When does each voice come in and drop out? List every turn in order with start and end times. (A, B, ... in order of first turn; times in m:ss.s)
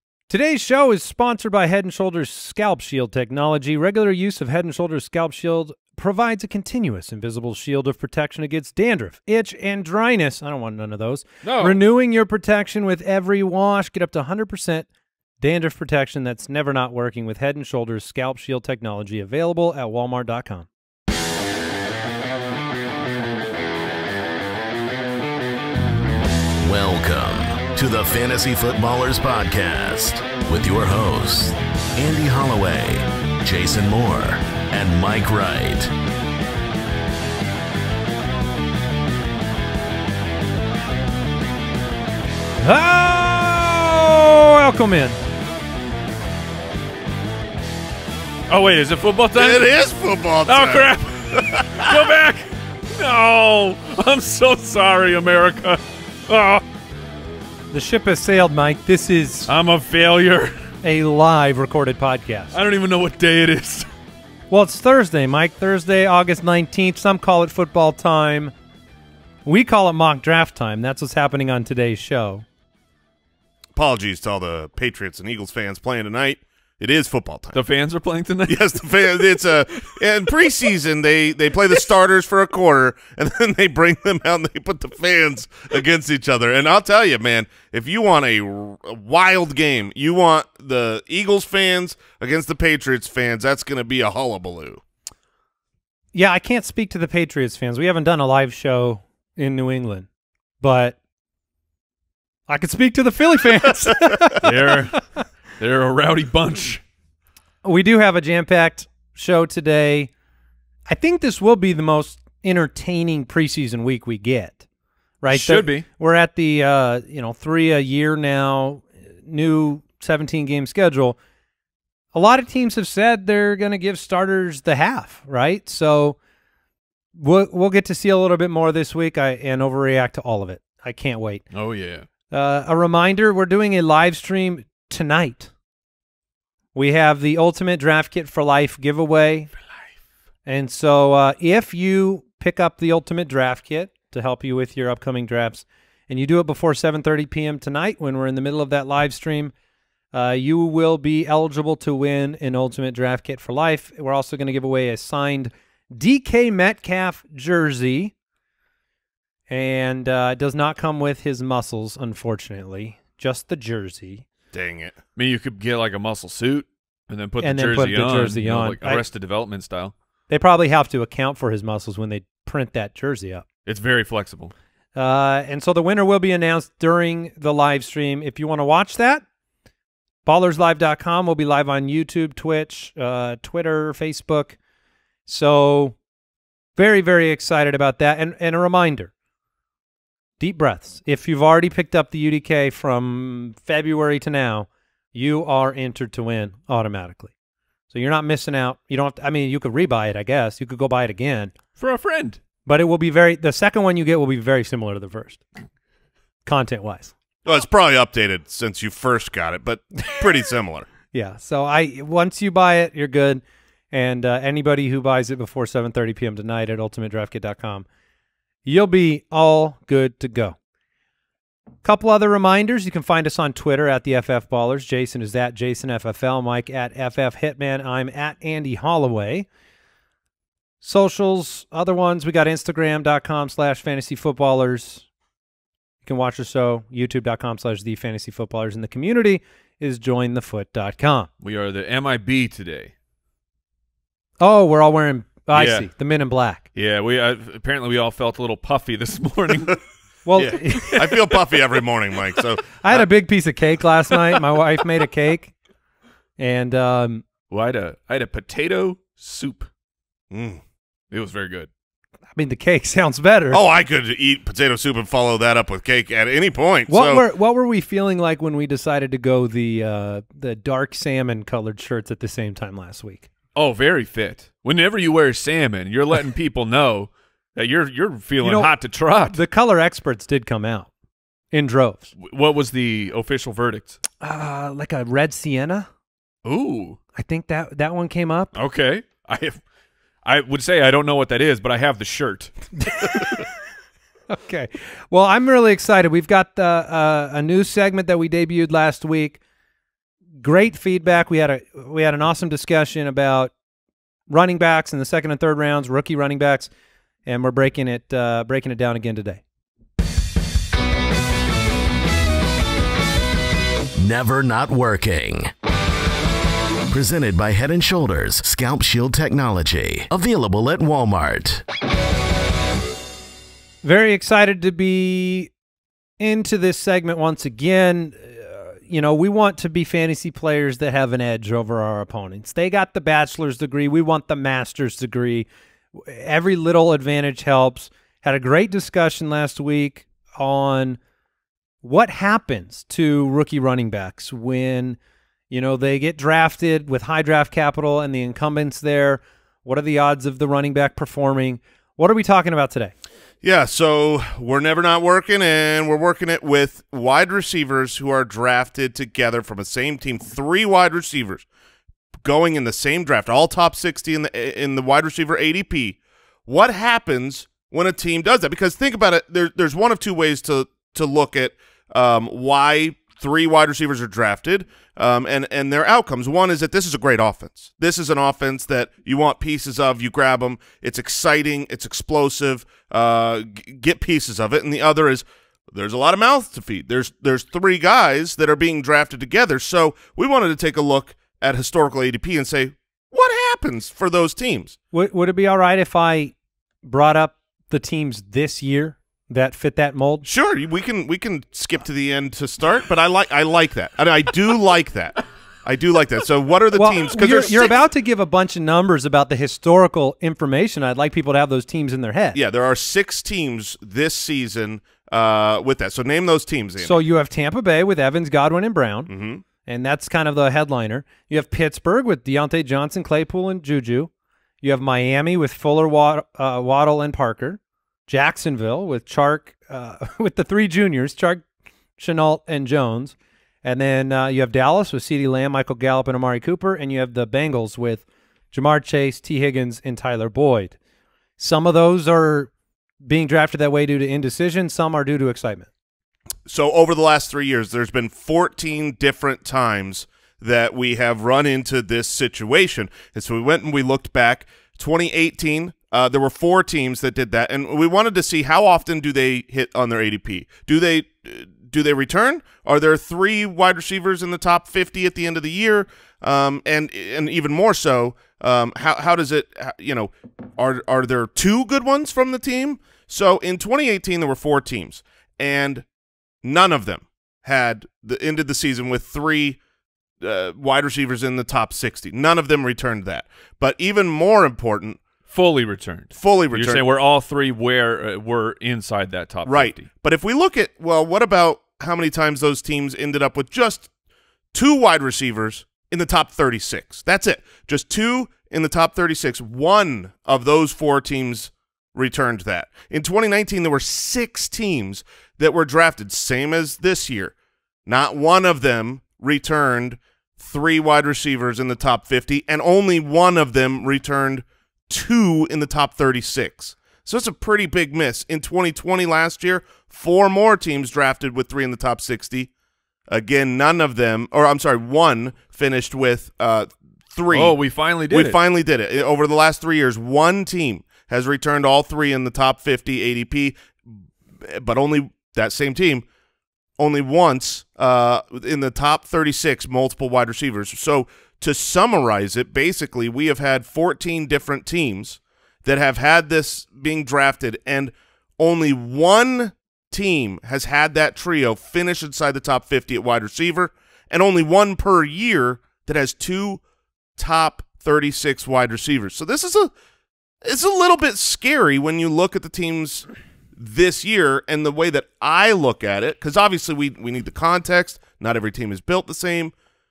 0:00.3-0:14.9 A
0:11.4-0:11.8 B
0:15.4-0:20.7 A
0:26.6-0:35.9 C
0:42.6-0:45.2 A
0:48.5-0:49.7 B
0:49.4-0:51.9 D
0:50.4-0:56.6 B
0:57.7-0:59.5 A
0:59.5-1:00.6 B
1:00.8-1:02.5 A
1:02.5-1:03.9 B
1:04.5-1:08.5 A
1:09.4-1:12.4 A
1:13.7-1:17.6 D
1:17.5-1:19.2 B
1:18.4-1:34.8 D
1:36.1-1:40.1 A
1:40.6-1:41.0 A
1:42.5-1:45.0 A
1:44.4-1:45.0 B
1:45.6-1:46.8 B
1:47.6-1:50.1 A
1:50.9-1:54.6 A
1:55.2-2:01.2 A
1:55.3-1:55.8 B
2:02.1-2:06.2 A
2:07.2-2:11.4 A
2:11.5-2:12.0 B
2:12.3-2:15.5 A
2:16.7-2:19.5 A
2:20.4-2:29.5 A
2:30.1-2:38.1 A
2:39.5-2:44.2 A
2:44.5-2:45.0 D
2:45.2-2:49.9 B
2:47.4-2:49.0 A
2:50.3-2:53.4 A
2:53.6-2:54.5 B
2:54.9-2:59.2 A
3:00.2-3:04.6 A
3:05.2-3:06.0 A
3:06.8-3:09.1 A
3:10.4-3:17.3 A
3:17.9-3:21.5 A
3:21.8-3:22.4 B
3:22.6-3:25.4 A
3:26.4-3:27.1 A
3:27.4-3:30.9 D
3:31.1-3:37.8 A
3:38.6-3:40.6 A
3:41.8-3:49.5 A
3:50.8-3:55.0 A
3:56.0-4:01.3 A
4:01.4-4:02.9 B
4:04.4-4:06.6 A
4:05.5-4:05.8 B
4:06.7-4:09.8 B
4:10.2-4:11.1 A
4:10.4-4:13.0 D
4:12.8-4:15.5 A
4:16.4-4:17.2 A
4:17.5-4:19.7 B
4:20.3-4:20.6 D
4:21.1-4:21.7 B
4:22.4-4:23.6 A
4:23.5-4:27.2 D
4:26.9-4:33.3 A
4:33.5-4:39.4 B
4:38.4-4:38.7 A
4:39.3-4:40.9 A
4:41.5-4:42.1 A
4:42.2-4:44.0 B
4:44.2-4:45.9 A
4:46.4-4:47.0 B
4:47.1-4:48.5 A
4:48.5-4:49.6 B
4:50.2-4:53.2 B
4:52.8-4:53.4 A
4:54.3-4:59.4 A
5:00.4-5:03.5 A
5:04.3-5:06.7 A
5:07.2-5:09.4 A
5:14.0-5:15.5 C
5:16.9-5:21.6 C
5:23.8-5:25.5 A
5:26.2-5:41.0 A
5:41.8-5:45.0 A
5:45.5-5:52.9 A
5:53.4-6:01.4 D
6:02.2-6:34.8 D
6:34.9-6:36.3 A
6:36.8-6:40.3 A
6:40.2-6:47.7 D
6:46.7-6:52.4 A
6:52.3-6:57.0 D
6:56.8-6:59.1 A
6:59.1-6:59.4 D
6:59.6-7:11.4 A
7:12.0-7:20.8 A
7:21.4-7:22.5 A
7:23.0-7:25.7 A
7:26.4-7:55.8 D
7:56.4-7:59.6 D
8:00.2-8:05.0 D
8:05.3-8:09.8 B
8:06.1-8:06.8 D
8:09.4-8:13.9 D
8:14.5-8:27.3 D
8:27.8-8:42.5 D
8:43.1-8:47.6 D
8:47.3-8:48.4 B
8:48.1-8:53.6 D
8:54.4-8:56.0 D
8:56.8-9:16.6 D
9:17.2-9:19.7 D
9:20.4-9:29.5 D